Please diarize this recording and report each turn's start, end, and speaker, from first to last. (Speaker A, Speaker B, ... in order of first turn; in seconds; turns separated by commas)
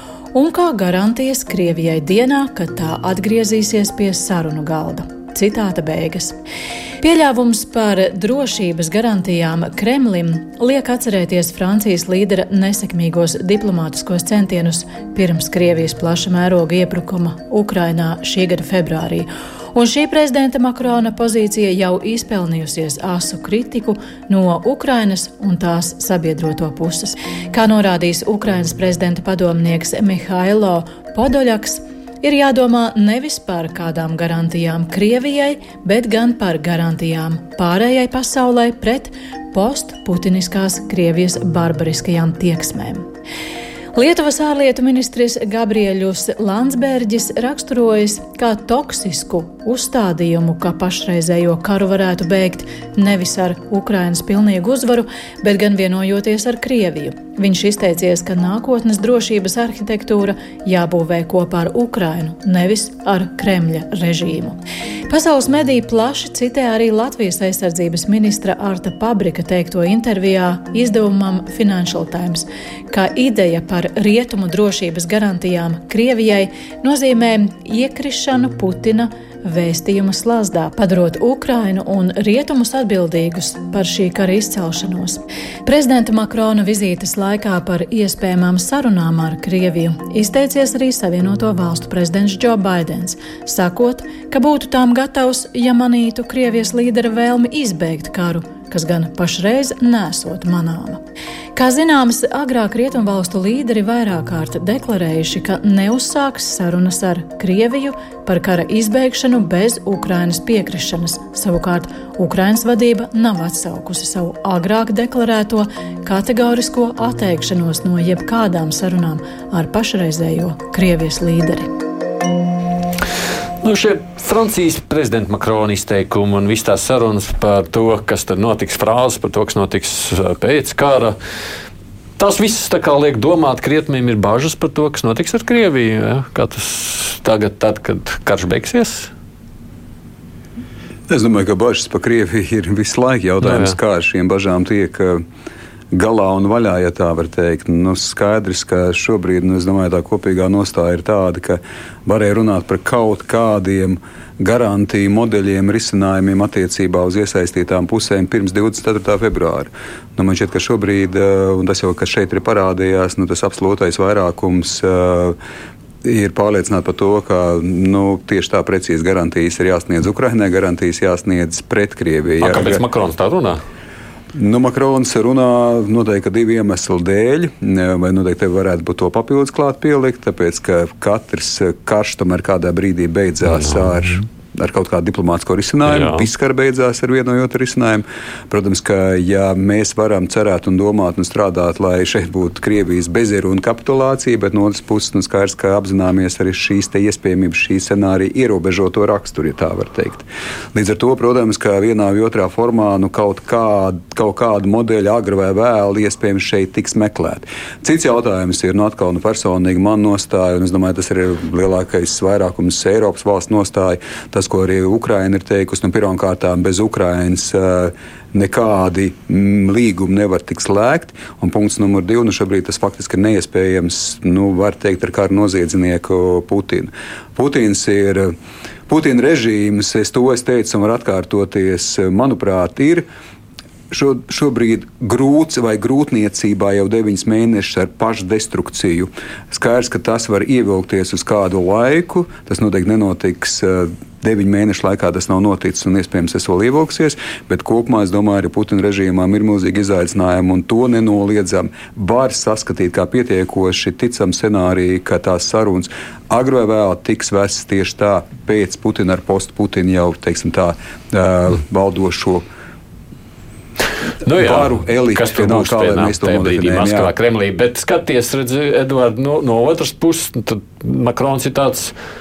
Speaker A: 0.3-6.4, Speaker A: 7.0-43.1, Speaker A: 44.0-64.6, Speaker A: 65.1-101.0, Speaker A: 101.6-121.7, Speaker B: 123.6-131.2, Speaker B: 132.2-139.1, Speaker C: 141.1-145.2, Speaker B: 143.4-143.8, Speaker C: 145.9-165.4, Speaker C: 166.0-172.8, Speaker B: 172.4-173.6, Speaker C: 174.3-228.3, Speaker B: 183.4-184.1, Speaker B: 185.8-186.3, Speaker C: 228.9-233.1, Speaker C: 233.9-262.4, Speaker B: 264.2-272.0, Speaker C: 264.4-267.1